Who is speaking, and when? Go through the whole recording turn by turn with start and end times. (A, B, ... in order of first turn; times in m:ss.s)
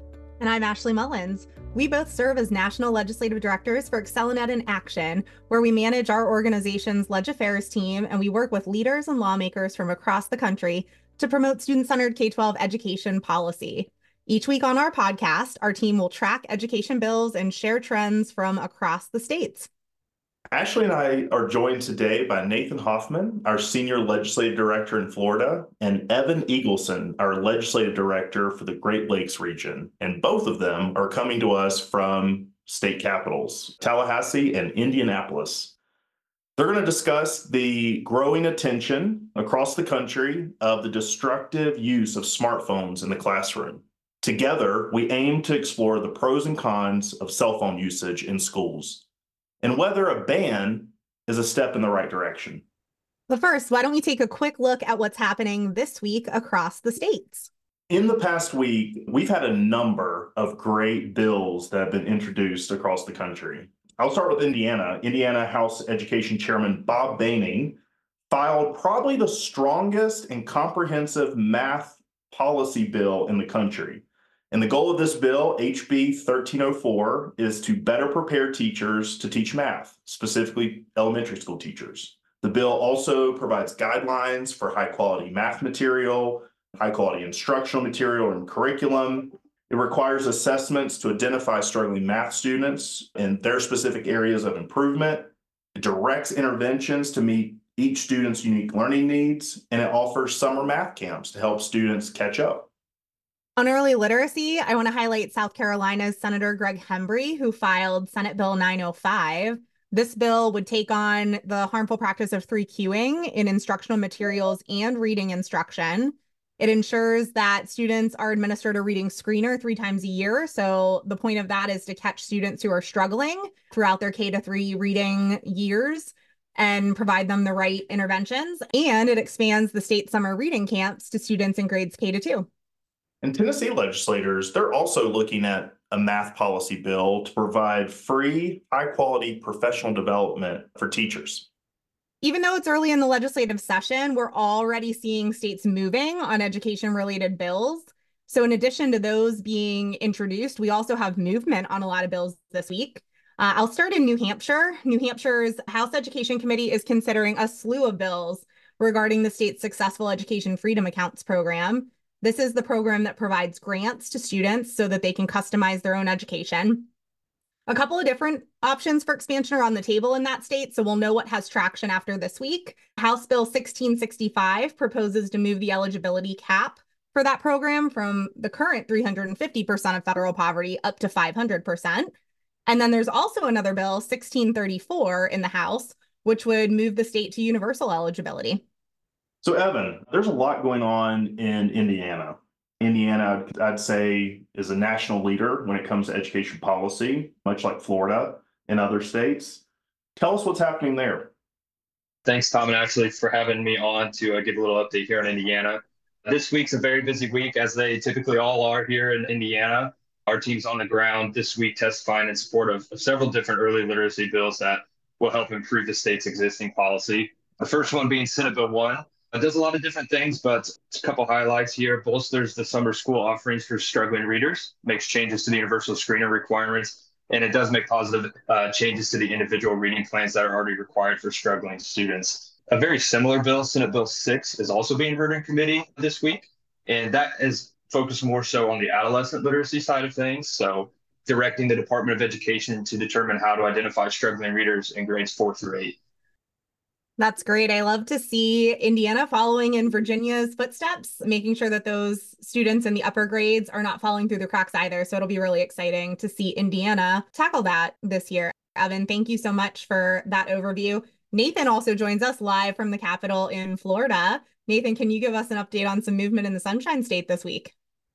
0:00.4-0:19.7 A
0:20.5-0:35.7 B
0:36.6-0:49.0 B
0:49.6-0:52.6 B
0:53.3-0:57.5 A
0:57.9-1:07.8 B
1:08.3-1:42.7 B
1:43.6-2:12.5 A
2:13.2-2:21.5 B
2:22.2-2:46.9 A
2:47.7-3:02.1 A
3:02.7-3:08.6 A
3:09.4-3:19.6 B
3:20.2-3:21.3 B
3:22.2-4:06.0 C
4:07.2-4:27.7 A